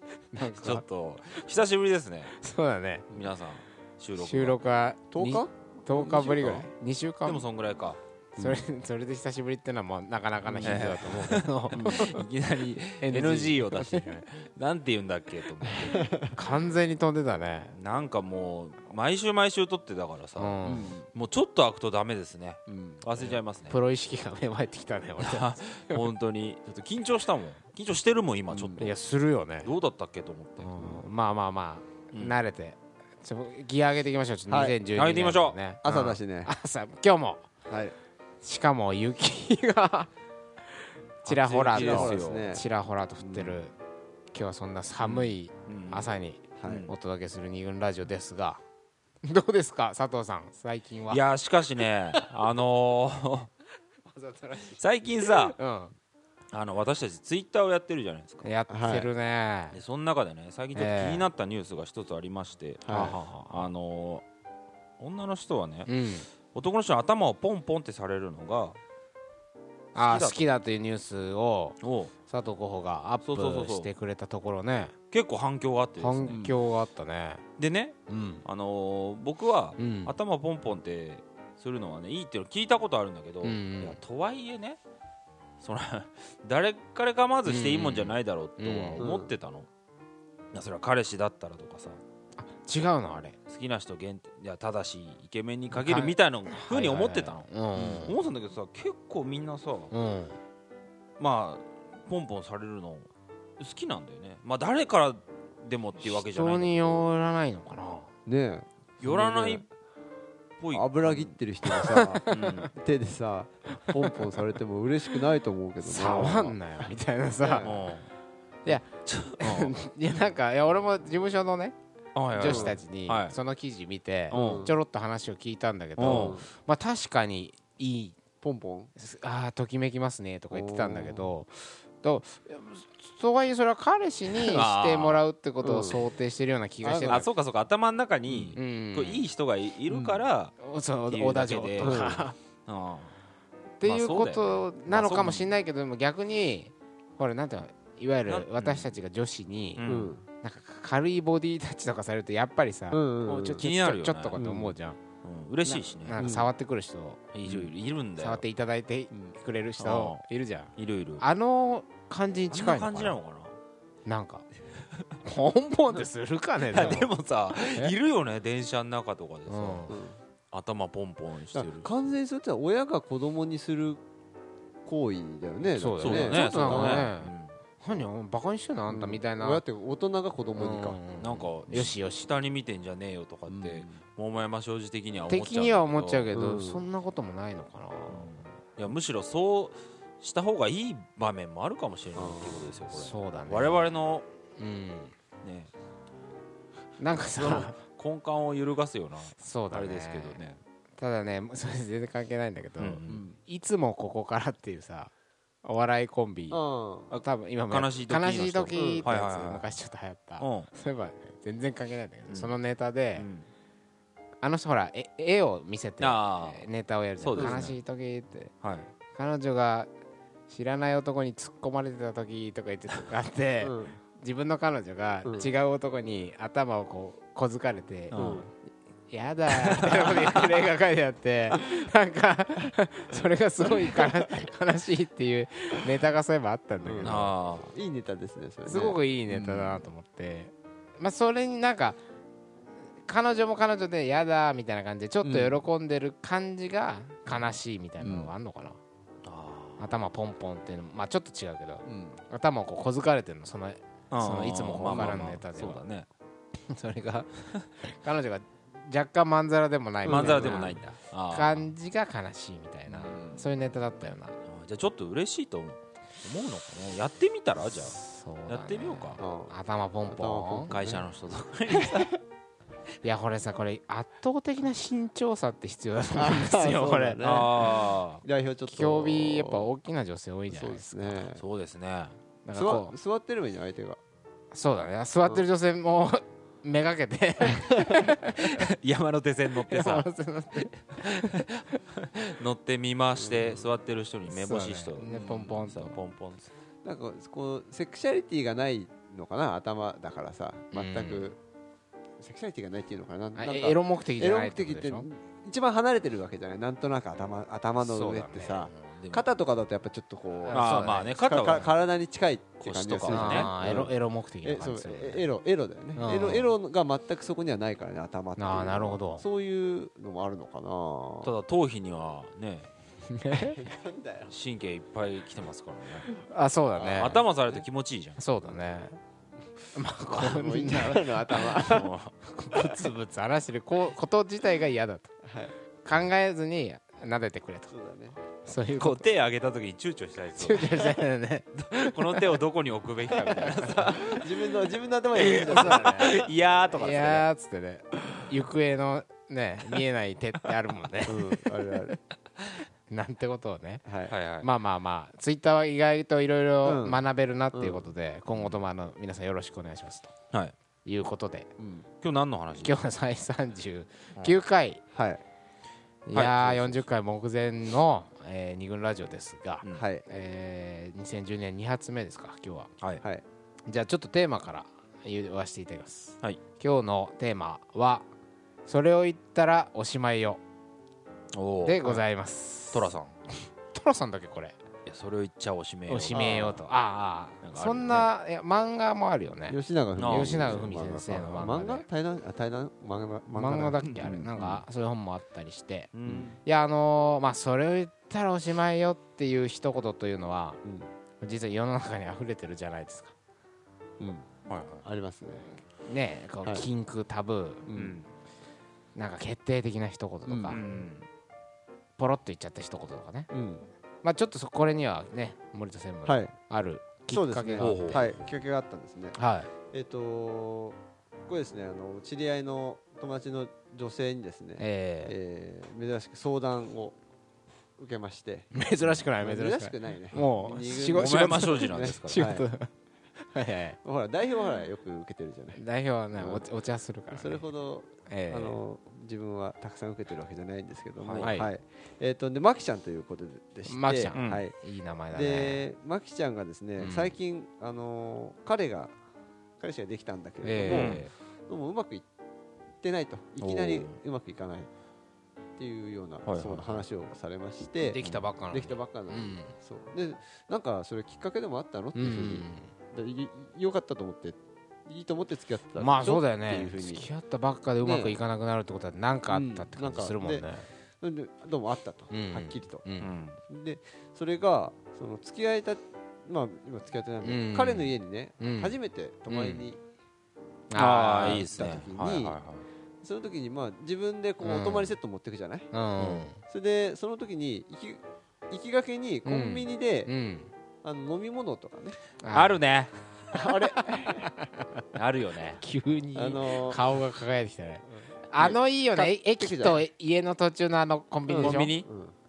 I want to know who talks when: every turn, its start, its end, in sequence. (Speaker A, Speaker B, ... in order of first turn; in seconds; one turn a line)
Speaker A: 0.3-0.8
Speaker B: 0.4-2.3
Speaker A: 2.3-3.1
Speaker B: 3.1-4.6
Speaker A: 4.2-7.5
Speaker C: 5.1-6.7
Speaker B: 7.2-8.0
Speaker A: 8.4-12.2
Speaker C: 8.4-8.7
Speaker C: 10.5-11.1
Speaker B: 10.5-16.0
Speaker A: 13.0-14.3
Speaker C: 15.7-16.3
Speaker A: 16.3-17.8
Speaker B: 17.7-23.8
Speaker A: 20.4-21.0
Speaker C: 20.6-21.1
Speaker C: 22.7-23.3
Speaker A: 23.7-26.1
Speaker B: 25.2-28.9
Speaker C: 28.5-28.9
Speaker A: 28.8-29.7
Speaker B: 29.6-30.7
Speaker A: 30.6-37.5
Speaker C: 30.8-31.0
Speaker B: 32.1-32.4
Speaker C: 34.5-34.8
Speaker B: 35.0-36.0
Speaker C: 35.8-36.5
Speaker C: 37.7-37.9
Speaker A: 38.4-40.1
Speaker B: 41.2-42.5
Speaker A: 41.2-43.7
Speaker C: 41.7-42.6
Speaker C: 43.2-43.5
Speaker A: 44.3-48.6
Speaker B: 45.0-46.1
Speaker C: 46.6-46.9
Speaker B: 46.7-46.9
Speaker A: 49.2-51.2
Speaker B: 51.1-53.5
Speaker A: 54.1-56.0
Speaker B: 54.8-55.6
Speaker B: 56.5-58.5
Speaker A: 58.4-59.8
Speaker C: 58.7-59.1
Speaker B: 59.7-64.2
Speaker A: 60.7-61.3
Speaker C: 62.9-63.2
Speaker A: 62.9-63.7
Speaker B: 65.0-65.9
Speaker A: 65.9-66.3
Speaker B: 66.5-68.8
Speaker B: 70.0-70.5
Speaker A: 70.0-75.0
Speaker B: 71.8-72.1
Speaker B: 73.2-73.9
Speaker B: 75.1-76.5
Speaker A: 76.0-77.4
Speaker B: 77.6-84.8
Speaker A: 78.1-78.4
Speaker A: 79.8-80.1
Speaker A: 83.4-84.0
Speaker B: 85.6-89.7
Speaker A: 87.5-89.1
Speaker C: 89.0-89.4
Speaker B: 90.5-92.0
Speaker A: 92.4-93.4
Speaker B: 93.5-99.9
Speaker A: 95.7-98.2
Speaker A: 99.9-100.4
Speaker B: 101.2-103.1
Speaker B: 103.6-107.1
Speaker A: 106.0-108.1
Speaker C: 108.3-109.6
Speaker B: 109.0-109.7
Speaker B: 110.6-111.4
Speaker C: 110.7-116.9
Speaker A: 111.7-112.6
Speaker B: 112.3-112.7
Speaker A: 115.8-117.7
Speaker C: 117.4-117.9
Speaker B: 117.6-118.1
Speaker A: 118.7-121.8
Speaker B: 118.7-119.8
Speaker B: 122.2-123.4
Speaker A: 122.3-128.2
Speaker C: 122.4-122.8
Speaker B: 124.3-124.7
Speaker C: 124.3-124.8
Speaker B: 126.0-126.4
Speaker C: 126.0-126.5
Speaker C: 128.4-128.9
Speaker A: 129.0-137.3
Speaker C: 130.5-131.3
Speaker B: 134.4-135.2
Speaker C: 135.6-136.0
Speaker C: 136.8-137.2
Speaker B: 137.1-140.6
Speaker C: 138.3-138.6
Speaker A: 138.6-139.3
Speaker C: 139.9-140.2
Speaker A: 140.6-142.4
Speaker B: 141.1-143.2
Speaker C: 141.8-142.2
Speaker A: 143.8-149.9
Speaker B: 143.8-145.6
Speaker B: 148.3-148.9
Speaker B: 149.8-150.1
Speaker C: 149.8-150.2
Speaker A: 150.4-155.0
Speaker C: 152.9-153.7
Speaker B: 153.6-154.4
Speaker C: 154.3-154.8
Speaker B: 155.2-156.2
Speaker A: 155.7-157.2
Speaker C: 156.2-156.5
Speaker B: 157.3-158.4
Speaker C: 157.4-157.7
Speaker A: 158.2-163.2
Speaker C: 159.1-159.4
Speaker B: 159.8-160.2
Speaker B: 160.8-161.2
Speaker B: 162.5-163.5
Speaker A: 164.1-164.5
Speaker A: 165.2-167.9
Speaker B: 166.7-169.9
Speaker A: 169.5-169.9
Speaker C: 169.9-170.2
Speaker B: 170.5-171.9
Speaker C: 171.5-174.0
Speaker C: 174.9-177.1
Speaker A: 175.7-179.6
Speaker B: 176.0-177.5
Speaker C: 178.9-181.0
Speaker A: 180.6-182.3
Speaker B: 181.2-186.3
Speaker C: 183.5-184.0
Speaker A: 185.3-188.3
Speaker C: 186.3-186.9
Speaker B: 188.1-194.3
Speaker C: 192.1-192.7
Speaker A: 192.9-193.9
Speaker A: 194.6-195.1
Speaker B: 195.4-195.7
Speaker A: 197.0-197.8
Speaker B: 197.1-200.6
Speaker A: 199.4-200.4
Speaker A: 201.0-205.1
Speaker B: 202.8-203.3
Speaker C: 203.1-203.4
Speaker A: 205.6-206.6
Speaker C: 206.5-207.1
Speaker B: 207.1-209.7
Speaker A: 207.2-213.3
Speaker C: 208.7-209.1
Speaker B: 210.4-210.7
Speaker B: 212.3-212.6
Speaker B: 213.2-213.5
Speaker A: 214.4-218.5
Speaker B: 216.0-216.7
Speaker B: 217.2-217.8
Speaker C: 217.4-217.7
Speaker B: 218.6-218.9
Speaker A: 219.2-219.9
Speaker A: 220.5-228.3
Speaker C: 223.6-224.0
Speaker C: 225.2-225.5
Speaker B: 228.1-228.5
Speaker C: 228.2-228.5
Speaker A: 229.1-237.3
Speaker B: 229.5-230.6
Speaker C: 233.6-234.1
Speaker C: 236.8-239.7
Speaker B: 237.1-237.7
Speaker A: 238.7-242.0
Speaker A: 243.1-248.8
Speaker C: 245.2-245.6
Speaker B: 247.3-247.6
Speaker C: 248.0-248.3
Speaker B: 249.2-249.9
Speaker A: 249.8-255.8
Speaker C: 251.9-252.2
Speaker B: 254.1-256.1
Speaker C: 254.9-255.2
Speaker A: 256.7-264.4
Speaker C: 260.0-260.8
Speaker B: 260.1-261.7
Speaker B: 262.9-263.3
Speaker C: 263.1-263.5
Speaker B: 264.5-269.2
Speaker A: 267.9-270.7
Speaker C: 269.2-269.5
Speaker C: 270.1-271.1
Speaker B: 270.7-272.1
Speaker A: 273.0-277.2
Speaker C: 276.1-279.7
Speaker B: 277.2-278.2
Speaker A: 278.7-281.2
Speaker C: 280.5-281.4
Speaker B: 281.4-282.2
Speaker A: 282.4-282.9
Speaker C: 282.6-284.0
Speaker A: 284.5-288.4
Speaker C: 287.5-288.1
Speaker B: 288.3-296.5
Speaker A: 289.7-291.5
Speaker C: 293.2-293.7
Speaker A: 294.3-296.0
Speaker C: 295.1-295.5
Speaker C: 296.8-301.4
Speaker A: 300.7-301.3
Speaker C: 302.2-321.3
Speaker A: 303.4-305.1
Speaker A: 307.8-308.7
Speaker B: 308.7-309.3
Speaker A: 310.4-311.7
Speaker B: 310.5-311.8
Speaker B: 312.6-313.5
Speaker A: 313.1-315.3
Speaker A: 316.0-316.5
Speaker A: 318.4-319.2
Speaker B: 321.2-322.7
Speaker A: 323.1-323.6
Speaker C: 323.4-324.3
Speaker B: 324.3-326.1
Speaker A: 326.1-327.2
Speaker C: 326.8-327.7
Speaker B: 326.9-328.2
Speaker A: 328.2-329.0
Speaker A: 329.7-335.1
Speaker C: 330.1-331.8
Speaker B: 331.6-332.1
Speaker C: 335.2-335.5
Speaker A: 335.8-337.7
Speaker C: 337.7-338.2
Speaker A: 338.4-339.1
Speaker B: 338.8-341.0
Speaker A: 340.3-342.4
Speaker B: 341.6-344.3
Speaker A: 343.1-343.9
Speaker C: 343.6-346.3
Speaker B: 345.1-347.3
Speaker A: 345.2-346.2
Speaker A: 346.7-351.4
Speaker C: 351.1-352.0
Speaker A: 352.9-353.9
Speaker C: 353.9-354.1
Speaker B: 354.1-354.5
Speaker A: 354.4-360.1
Speaker C: 356.6-357.9
Speaker B: 358.3-358.6
Speaker A: 360.9-361.5
Speaker C: 361.6-361.9
Speaker B: 362.0-362.8
Speaker A: 362.6-364.8
Speaker C: 364.9-365.2
Speaker A: 366.1-372.7
Speaker B: 366.1-366.4
Speaker C: 366.4-366.8
Speaker C: 369.7-370.1
Speaker A: 373.7-378.1
Speaker A: 378.7-380.4
Speaker B: 381.3-382.0
Speaker A: 381.6-382.9
Speaker B: 382.7-383.1
Speaker A: 383.7-384.6
Speaker B: 384.9-386.6
Speaker A: 385.9-391.9
Speaker C: 386.1-386.6
Speaker B: 387.4-388.1
Speaker C: 389.5-394.6
Speaker B: 390.0-390.7
Speaker A: 393.4-395.9
Speaker B: 393.8-394.2
Speaker B: 395.9-396.4
Speaker C: 396.1-396.3
Speaker A: 396.4-400.6
Speaker C: 400.6-400.9
Speaker A: 401.2-403.1
Speaker C: 404.0-404.3
Speaker B: 404.5-404.8
Speaker C: 404.8-405.5
Speaker A: 405.9-407.7
Speaker C: 407.7-408.0
Speaker B: 407.8-408.1
Speaker A: 408.9-410.6
Speaker C: 410.3-410.6
Speaker B: 410.5-411.1
Speaker A: 412.0-413.3
Speaker C: 413.3-413.7
Speaker A: 414.0-418.2
Speaker C: 416.1-416.3
Speaker C: 417.1-419.2
Speaker B: 417.6-418.1
Speaker A: 419.1-419.5
Speaker C: 419.7-427.0
Speaker A: 424.6-425.2
Speaker C: 427.8-428.5
Speaker A: 428.5-432.7
Speaker C: 429.2-432.5
Speaker B: 430.8-432.3
Speaker A: 433.3-433.8
Speaker C: 433.8-435.6
Speaker A: 435.6-437.5
Speaker C: 436.2-436.4
Speaker C: 437.1-444.5
Speaker A: 438.1-438.6
Speaker B: 441.0-441.3
Speaker A: 441.2-441.5
Speaker A: 443.7-445.6
Speaker B: 444.1-444.4
Speaker C: 445.1-448.9
Speaker A: 446.8-447.2
Speaker C: 449.6-452.1
Speaker A: 450.4-451.0
Speaker B: 450.6-451.1
Speaker C: 452.8-454.7
Speaker B: 453.4-454.0
Speaker C: 455.6-467.1
Speaker B: 456.2-456.8
Speaker A: 457.8-459.5
Speaker A: 461.9-462.7
Speaker A: 465.8-470.7
Speaker C: 467.8-468.2
Speaker C: 469.3-470.5
Speaker C: 471.0-472.8
Speaker A: 472.1-473.1
Speaker B: 473.0-473.4
Speaker C: 473.5-479.8
Speaker A: 477.2-478.8
Speaker A: 479.3-479.7
Speaker A: 480.7-481.5
Speaker B: 480.8-482.7
Speaker C: 481.3-482.4
Speaker C: 483.0-485.7
Speaker A: 484.4-485.0
Speaker A: 485.7-486.4
Speaker B: 486.0-486.3
Speaker C: 486.4-490.1
Speaker A: 489.2-490.5
Speaker C: 490.8-492.0
Speaker A: 492.2-492.6
Speaker B: 492.3-492.9
Speaker A: 493.3-494.9
Speaker C: 493.3-494.3
Speaker B: 494.9-495.6
Speaker A: 495.6-501.8
Speaker C: 496.1-496.9
Speaker C: 497.9-499.9
Speaker C: 501.3-502.1
Speaker B: 501.4-501.9